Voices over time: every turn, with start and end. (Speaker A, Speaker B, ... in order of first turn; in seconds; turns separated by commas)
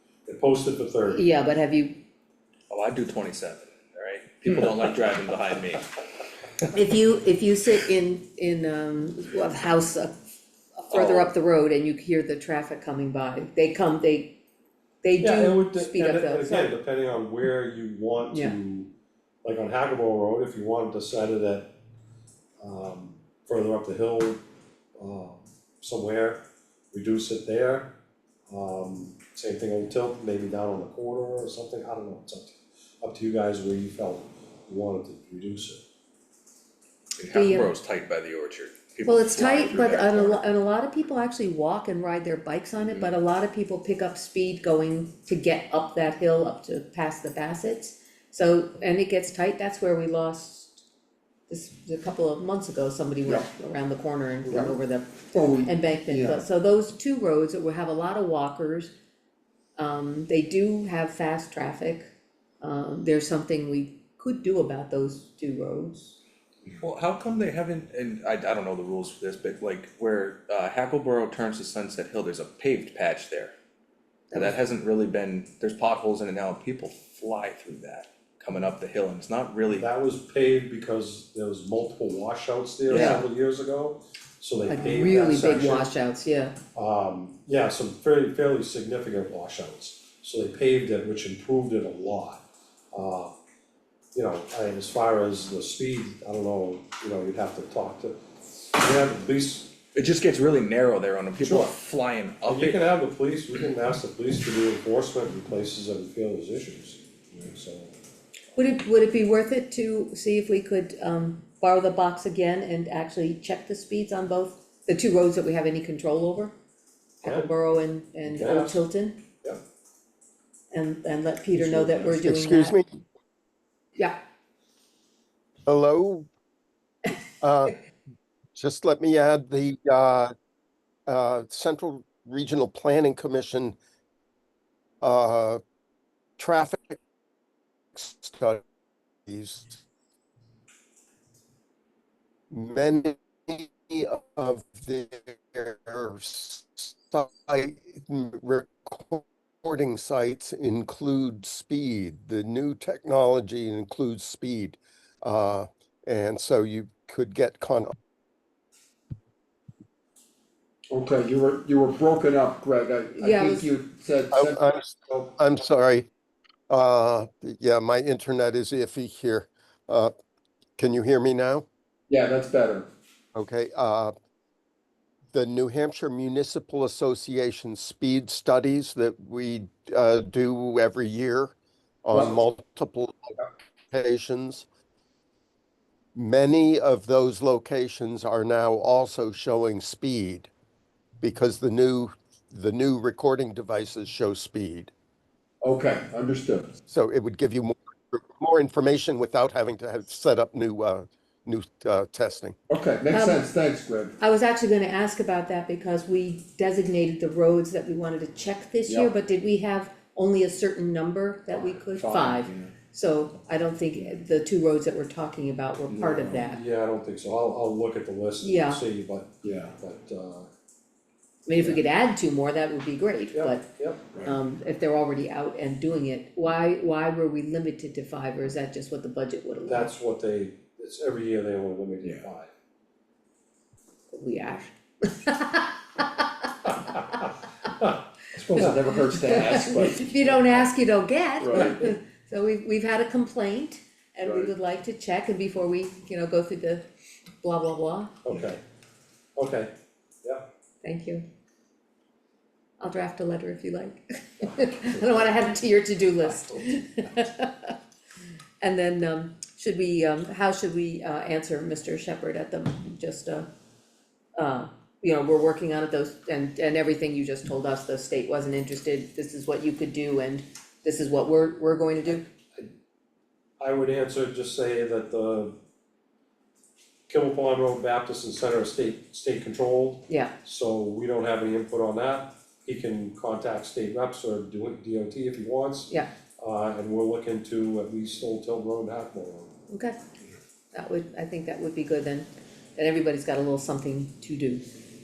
Speaker A: 0.3-1.2, Speaker B: 1.0-2.0, Speaker C: 2.7-5.9, Speaker B: 6.7-10.1, Speaker B: 10.8-14.3, Speaker C: 10.9-11.3, Speaker B: 15.0-16.8, Speaker A: 15.2-18.9, Speaker B: 18.3-18.6, Speaker A: 19.4-21.7, Speaker A: 22.6-24.4, Speaker A: 24.9-27.9, Speaker A: 28.5-35.8, Speaker C: 37.2-40.5, Speaker B: 37.3-37.7, Speaker B: 39.0-50.8, Speaker B: 51.5-58.9, Speaker D: 54.5-54.8, Speaker D: 55.3-56.5, Speaker B: 59.8-62.1, Speaker B: 62.6-66.2, Speaker C: 66.8-73.5, Speaker C: 74.3-79.9, Speaker A: 79.7-85.9, Speaker C: 82.9-83.2, Speaker B: 82.9-83.2, Speaker B: 84.7-86.5, Speaker A: 86.7-93.3, Speaker A: 94.1-98.2, Speaker A: 98.7-99.7, Speaker C: 99.9-102.8, Speaker A: 101.4-101.7, Speaker A: 102.4-107.9, Speaker B: 108.5-116.5, Speaker B: 117.2-119.2, Speaker A: 118.2-118.8, Speaker B: 120.7-122.8, Speaker E: 121.9-123.0, Speaker E: 125.7-126.3, Speaker E: 127.4-127.8, Speaker E: 128.5-130.3, Speaker E: 131.1-133.8, Speaker E: 135.0-135.6, Speaker E: 136.4-137.0, Speaker E: 137.9-138.6, Speaker E: 139.2-139.8, Speaker E: 142.5-157.9, Speaker D: 160.9-164.6, Speaker B: 163.2-163.7, Speaker E: 164.3-166.1, Speaker E: 166.7-170.1, Speaker E: 170.8-171.7, Speaker D: 172.1-172.9, Speaker E: 173.3-174.1, Speaker E: 175.3-183.4, Speaker E: 183.9-184.7, Speaker E: 186.1-190.5, Speaker E: 191.2-194.9, Speaker D: 195.6-196.8, Speaker E: 196.9-202.6, Speaker D: 202.7-204.2, Speaker B: 203.1-203.4, Speaker B: 204.2-216.6, Speaker D: 208.8-209.1, Speaker D: 211.5-212.7, Speaker D: 215.9-216.4, Speaker A: 216.4-220.5, Speaker B: 218.4-218.8, Speaker D: 219.4-219.7, Speaker B: 221.4-223.7, Speaker A: 223.3-224.1, Speaker B: 224.2-229.9, Speaker A: 229.7-232.5, Speaker B: 234.1-237.0, Speaker D: 238.3-240.3, Speaker B: 239.2-246.8, Speaker D: 241.4-241.8, Speaker D: 244.2-244.5, Speaker B: 247.4-248.1, Speaker A: 248.2-248.6, Speaker A: 249.3-249.7, Speaker B: 250.8-251.2, Speaker B: 252.8-257.7, Speaker B: 258.6-263.5, Speaker B: 264.4-272.2, Speaker A: 273.6-275.5, Speaker A: 277.1-289.5, Speaker B: 280.1-280.3, Speaker B: 289.7-290.0, Speaker B: 290.7-294.7